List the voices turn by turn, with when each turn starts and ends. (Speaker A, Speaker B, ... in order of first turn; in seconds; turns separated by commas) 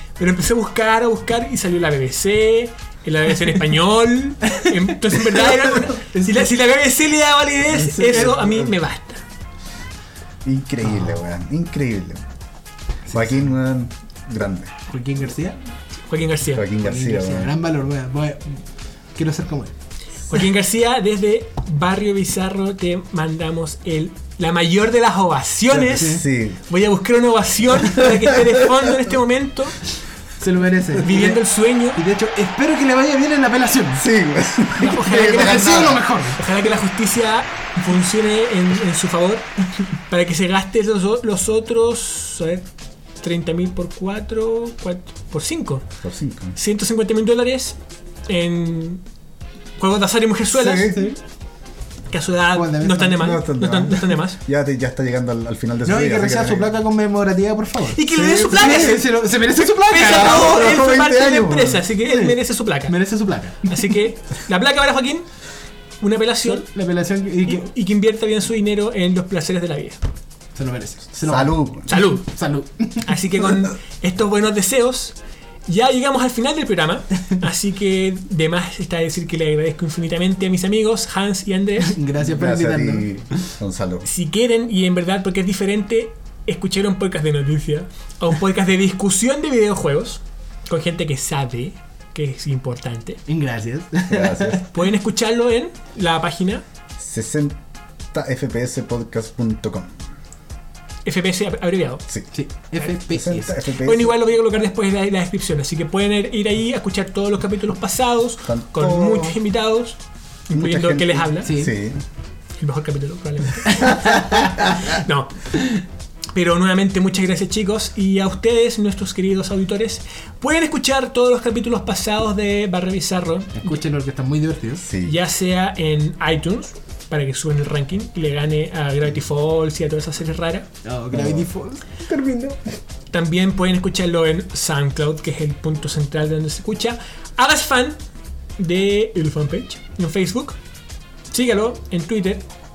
Speaker A: 0.2-9.2, Speaker B: 6.0-6.5, Speaker C: 7.9-8.7, Speaker C: 10.4-12.2, Speaker B: 13.1-13.5, Speaker C: 13.1-14.7, Speaker B: 14.9-15.6, Speaker A: 16.0-16.6, Speaker C: 16.5-17.5, Speaker B: 16.8-18.6, Speaker B: 19.1-19.7, Speaker A: 20.3-29.8, Speaker C: 25.7-26.6, Speaker B: 25.9-26.2, Speaker C: 28.0-28.6, Speaker B: 30.4-31.4, Speaker A: 31.0-32.0, Speaker B: 31.9-34.0, Speaker C: 34.0-36.0, Speaker A: 34.8-42.6, Speaker B: 34.9-36.4, Speaker A: 43.2-45.8, Speaker C: 46.0-46.5, Speaker A: 46.5-49.0, Speaker A: 49.8-51.1, Speaker C: 50.5-51.1, Speaker A: 52.1-54.4, Speaker B: 52.5-53.3, Speaker C: 53.1-56.7, Speaker B: 55.8-60.6, Speaker A: 57.9-63.0, Speaker C: 58.2-58.5, Speaker C: 60.0-61.8, Speaker B: 62.0-64.0, Speaker A: 63.6-65.3, Speaker A: 66.0-66.7, Speaker B: 66.4-67.7, Speaker A: 67.4-70.0, Speaker B: 70.5-73.2, Speaker C: 71.2-71.9, Speaker A: 71.9-72.3, Speaker A: 73.0-75.2, Speaker A: 75.7-81.9, Speaker B: 81.8-83.1, Speaker C: 82.2-84.1, Speaker A: 84.0-93.2, Speaker B: 93.3-94.7, Speaker C: 94.1-94.6, Speaker A: 94.7-96.6, Speaker C: 97.0-97.6, Speaker C: 98.1-100.0, Speaker A: 101.0-102.0, Speaker B: 102.3-103.6, Speaker C: 103.1-104.1, Speaker A: 103.8-111.5, Speaker C: 108.4-109.4, Speaker C: 110.5-112.0, Speaker B: 111.4-111.7, Speaker A: 112.6-115.8, Speaker B: 113.7-114.6, Speaker C: 114.4-114.7, Speaker A: 116.3-123.8, Speaker B: 123.6-124.8, Speaker C: 124.8-125.2, Speaker A: 125.0-130.7, Speaker B: 130.8-132.6, Speaker C: 131.1-131.5, Speaker A: 133.1-138.0, Speaker A: 138.6-140.6, Speaker A: 141.3-142.4